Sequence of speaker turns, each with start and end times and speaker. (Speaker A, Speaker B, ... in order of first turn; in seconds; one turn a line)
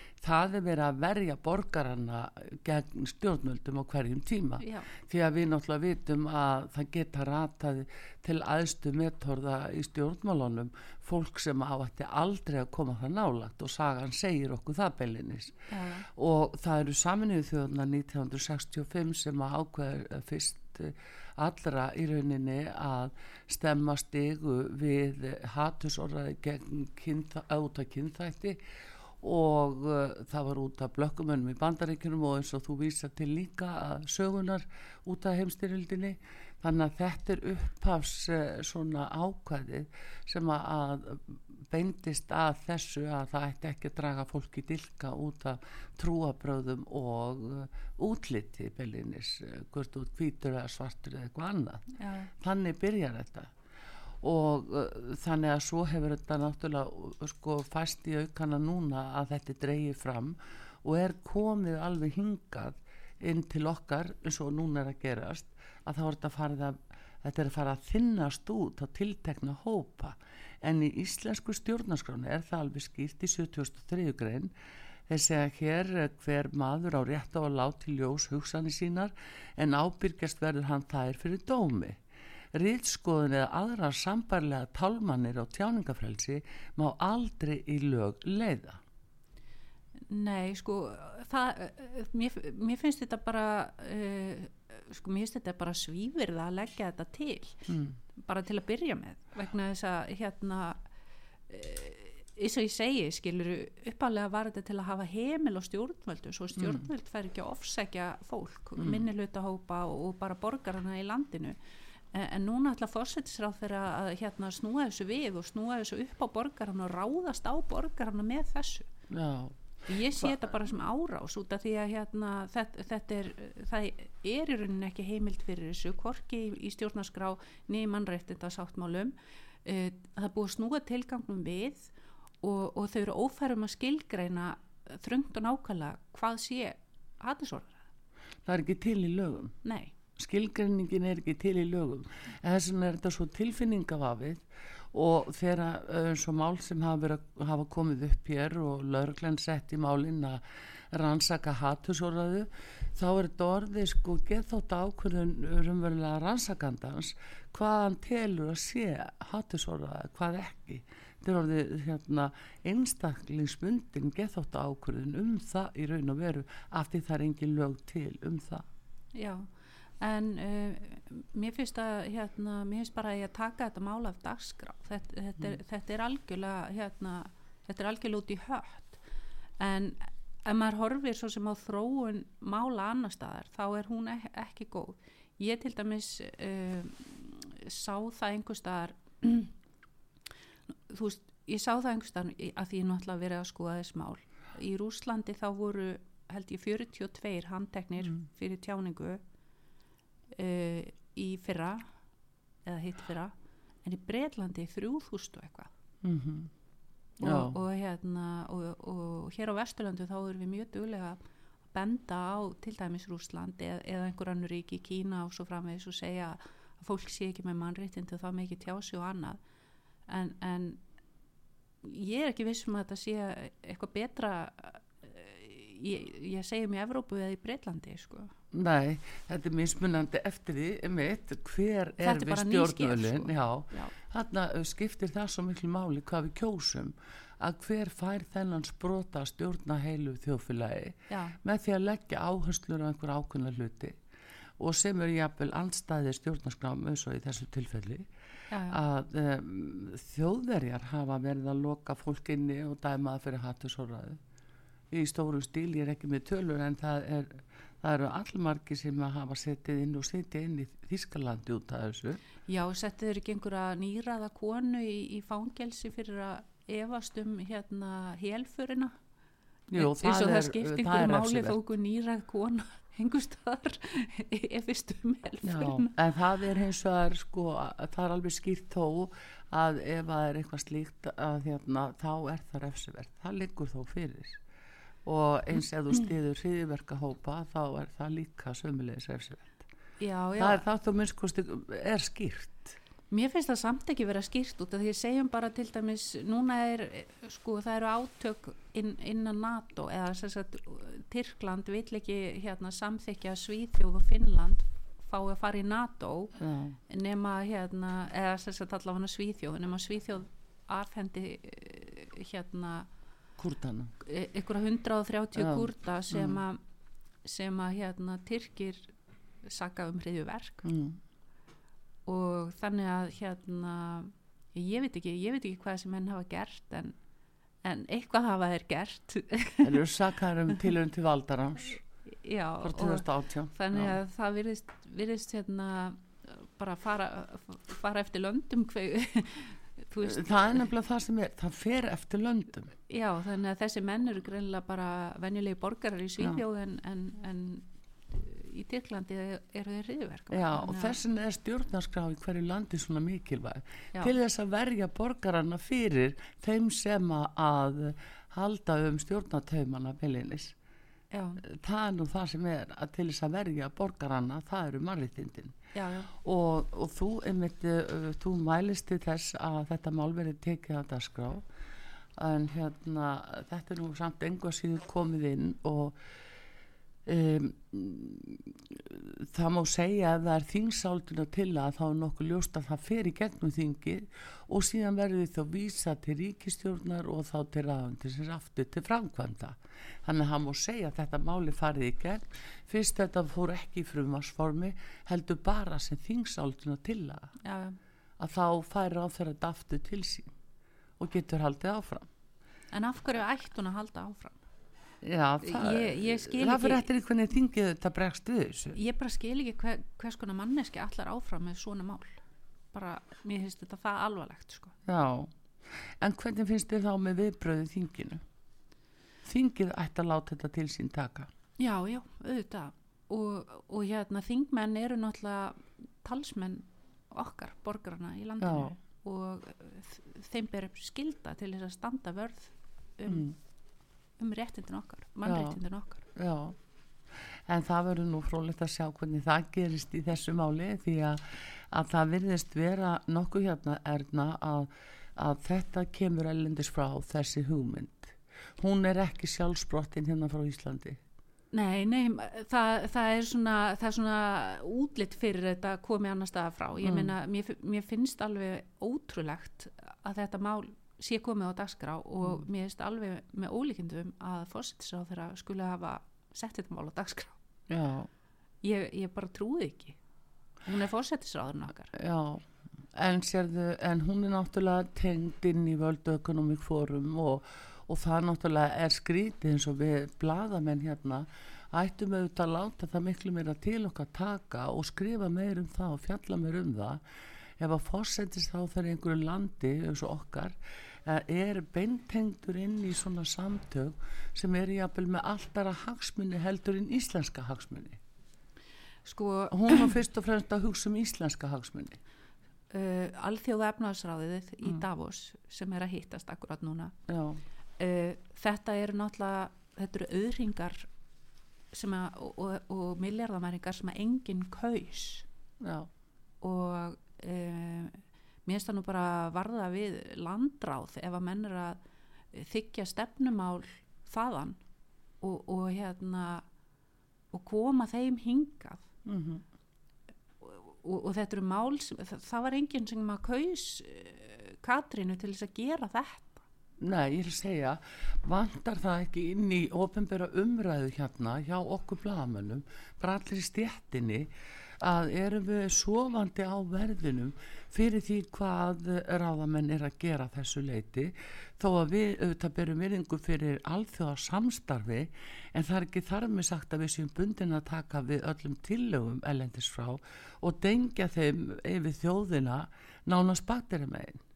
Speaker A: 0.2-28.6
Speaker B: 4.6-4.9
Speaker B: 15.7-16.1
Speaker A: 29.2-51.9
Speaker B: 52.0-52.3
Speaker A: 52.4-53.5
Speaker A: 54.2-74.5
Speaker A: 75.1-82.0
Speaker A: 82.5-88.8
Speaker B: 90.1-97.7
Speaker A: 97.7-98.0
Speaker B: 98.2-100.8
Speaker B: 101.5-111.6
Speaker A: 106.6-106.8
Speaker A: 108.8-109.0
Speaker B: 112.1-118.9
Speaker A: 119.1-119.6
Speaker B: 119.9-131.9
Speaker B: 132.4-137.8
Speaker A: 138.4-139.5
Speaker B: 139.6-139.9
Speaker A: 140.2-168.6
Speaker B: 169.1-179.0
Speaker B: 179.6-189.5
Speaker B: 190.9-199.2
Speaker B: 200.3-201.8
Speaker B: 202.6-203.3
Speaker B: 203.8-205.7
Speaker A: 206.0-206.5
Speaker B: 207.2-211.2
Speaker A: 207.2-207.6
Speaker B: 211.7-219.4
Speaker B: 220.1-220.8
Speaker B: 221.8-228.3
Speaker A: 228.5-244.0
Speaker B: 232.0-233.9
Speaker B: 241.1-241.4
Speaker A: 244.6-248.1
Speaker B: 248.5-248.8
Speaker A: 248.7-254.2
Speaker A: 254.9-262.2
Speaker B: 262.5-268.9
Speaker A: 269.7-271.6
Speaker B: 269.8-275.9
Speaker A: 275.4-284.4
Speaker A: 285.0-289.6
Speaker B: 290.0-290.6
Speaker A: 290.4-292.8
Speaker B: 293.1-306.3
Speaker A: 306.4-306.8
Speaker B: 306.9-312.9
Speaker A: 313.4-313.9
Speaker B: 314.0-316.6
Speaker A: 315.4-316.4
Speaker B: 317.2-318.9
Speaker B: 319.4-320.6
Speaker A: 320.6-321.0
Speaker B: 322.1-326.9
Speaker B: 327.6-329.8
Speaker A: 329.6-331.8
Speaker B: 332.2-340.4
Speaker A: 332.6-334.0
Speaker A: 340.0-342.7
Speaker B: 342.9-351.0
Speaker A: 350.3-360.5
Speaker B: 361.1-361.4
Speaker A: 361.4-365.5
Speaker B: 365.7-366.1
Speaker A: 366.1-371.4
Speaker A: 372.2-376.0
Speaker A: 377.1-397.3
Speaker B: 397.4-397.8
Speaker A: 398.2-400.3
Speaker A: 401.0-402.1
Speaker B: 402.7-404.4
Speaker A: 405.0-408.8
Speaker B: 405.4-406.9
Speaker B: 408.7-412.2
Speaker B: 412.7-414.7
Speaker A: 414.9-418.2
Speaker A: 419.2-421.3
Speaker B: 421.6-433.3
Speaker A: 428.4-428.7
Speaker A: 433.1-433.4
Speaker B: 434.2-436.1
Speaker A: 435.2-435.6
Speaker A: 436.1-436.6
Speaker A: 437.4-451.0
Speaker B: 451.5-467.4
Speaker A: 456.8-457.1
Speaker A: 467.7-468.1
Speaker B: 468.6-470.0
Speaker B: 470.6-471.9
Speaker A: 471.9-487.0
Speaker A: 487.6-498.0
Speaker B: 499.1-499.9
Speaker A: 499.5-502.0
Speaker B: 502.7-506.9
Speaker A: 507.1-507.4
Speaker B: 507.8-510.9
Speaker B: 511.7-515.2
Speaker A: 515.6-515.9
Speaker B: 516.4-521.8
Speaker B: 522.3-524.6
Speaker B: 525.2-526.5
Speaker B: 527.3-528.9
Speaker A: 529.0-529.4
Speaker B: 530.4-536.4
Speaker A: 536.8-544.3
Speaker A: 544.8-564.2